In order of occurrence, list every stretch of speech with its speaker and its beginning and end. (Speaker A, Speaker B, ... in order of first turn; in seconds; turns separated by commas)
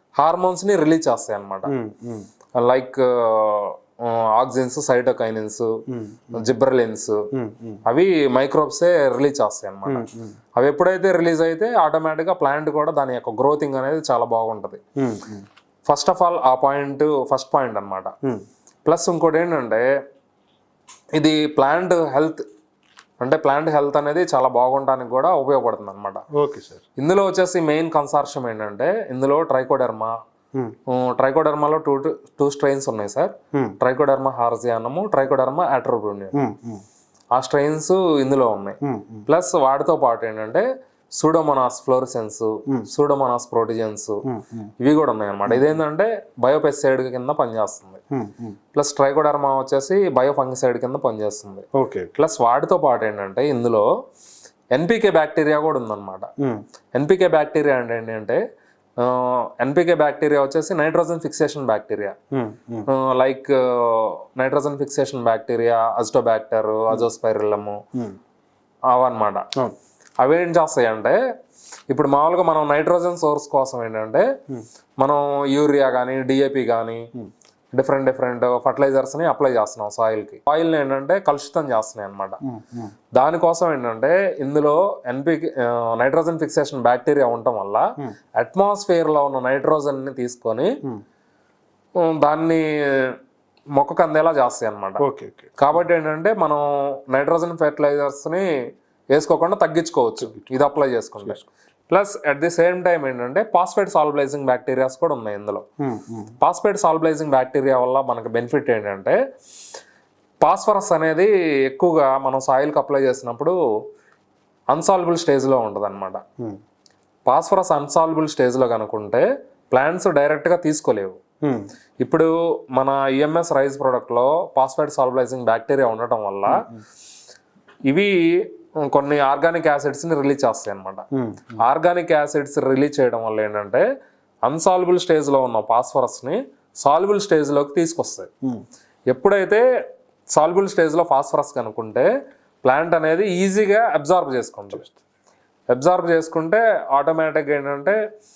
Speaker A: 0.2-1.7, Speaker B: 1.7-2.3, Speaker A: 2.6-5.7, Speaker B: 5.9-6.5, Speaker A: 6.3-7.2, Speaker B: 7.3-7.8, Speaker A: 7.9-10.1, Speaker B: 9.9-10.4, Speaker A: 10.6-14.8, Speaker B: 15.0-15.4, Speaker A: 15.9-18.1, Speaker A: 18.9-19.8, Speaker A: 21.2-22.4, Speaker A: 23.2-26.2, Speaker B: 26.4-26.8, Speaker A: 27.0-30.1, Speaker A: 30.9-36.4, Speaker B: 36.3-36.8, Speaker A: 37.4-40.6, Speaker B: 38.8-39.3, Speaker A: 41.1-44.2, Speaker B: 44.3-44.7, Speaker A: 44.8-48.0, Speaker B: 45.5-45.8, Speaker B: 48.1-48.6, Speaker A: 48.7-53.9, Speaker B: 51.8-52.1, Speaker A: 54.7-56.3, Speaker A: 57.0-58.4, Speaker A: 59.0-62.1, Speaker B: 62.3-62.9, Speaker A: 62.9-67.8, Speaker A: 68.9-69.5, Speaker A: 70.2-71.2, Speaker A: 71.9-74.2, Speaker A: 75.0-77.1, Speaker A: 77.7-82.4, Speaker B: 82.5-82.9, Speaker A: 83.2-87.8, Speaker A: 88.4-90.8, Speaker A: 92.0-93.2, Speaker A: 93.8-95.0, Speaker B: 95.0-95.6, Speaker A: 95.6-98.5, Speaker A: 99.1-101.4, Speaker B: 100.2-101.5, Speaker A: 101.9-105.6, Speaker B: 105.8-106.3, Speaker A: 106.4-109.2, Speaker A: 110.4-113.6, Speaker A: 114.7-116.2, Speaker A: 117.3-121.2, Speaker A: 122.0-126.6, Speaker B: 126.5-126.8, Speaker A: 127.9-131.1, Speaker B: 131.2-131.6, Speaker A: 131.6-133.8, Speaker A: 134.5-138.3, Speaker A: 139.1-139.6, Speaker A: 140.3-142.1, Speaker A: 142.6-144.9, Speaker A: 145.7-148.0